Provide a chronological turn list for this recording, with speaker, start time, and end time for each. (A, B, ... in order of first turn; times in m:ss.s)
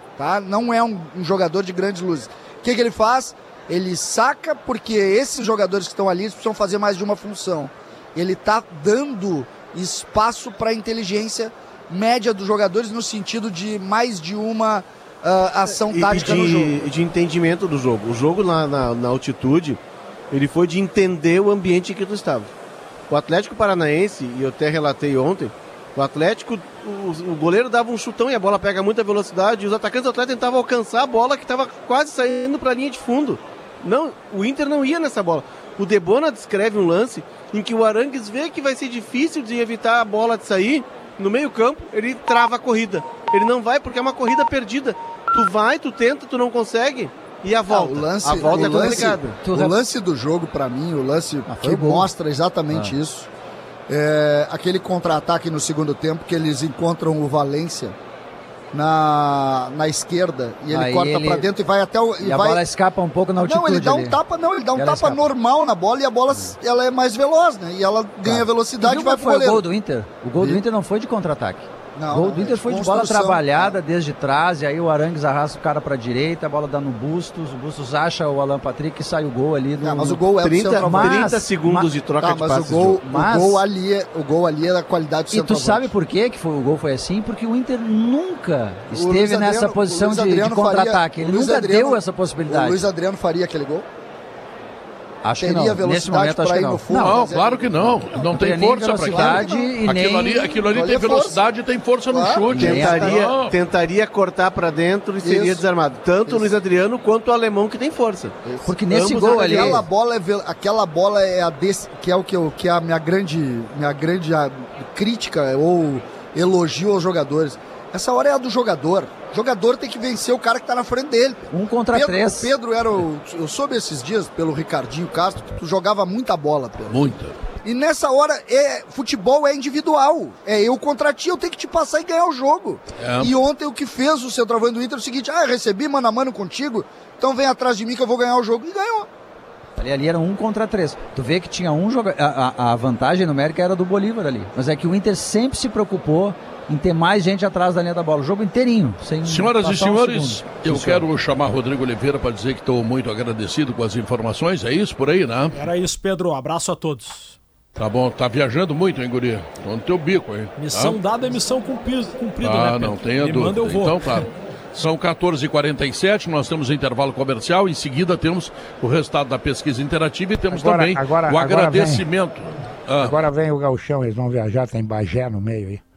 0:00.2-0:16.8 A
0:15.9-0:19.8 B
0:20.3-0:22.5 B
0:23.1-0:49.4 B
0:47.7-0:53.3 A
0:48.4-0:49.7 C
0:51.4-0:52.1 C
0:52.7-0:52.9 C
0:53.9-0:58.0 A
0:58.7-1:02.6 A
1:00.7-1:01.4 C
1:02.2-1:04.2 C
1:03.4-1:09.6 A
1:04.7-1:05.3 C
1:08.2-1:20.2 C
1:11.9-1:13.8 A
1:19.8-1:21.4 A
1:20.4-1:23.0 B
1:20.8-1:21.9 C
1:22.2-1:25.9 A
1:23.0-1:23.6 C
1:25.3-1:32.8 C
1:28.9-1:33.8 A
1:35.2-1:37.2 C
1:35.4-1:39.7 A
1:36.9-1:43.5 D
1:38.3-1:40.5 C
1:40.4-1:41.4 A
1:42.1-1:43.2 A
1:42.5-1:43.2 C
1:42.6-1:48.3 B
1:45.2-1:45.6 A
1:48.4-2:07.0 A
1:48.6-1:49.8 C
1:48.9-1:49.8 B
2:01.5-2:02.5 C
2:06.9-2:07.4 D
2:07.6-2:19.1 A
2:13.0-2:13.3 D
2:19.8-2:31.0 C
2:29.2-2:35.6 D
2:35.5-2:37.4 E
2:37.8-2:41.0 D
2:40.6-2:44.0 E
2:42.4-2:53.1 D
2:50.5-2:52.0 F
2:53.0-2:55.8 F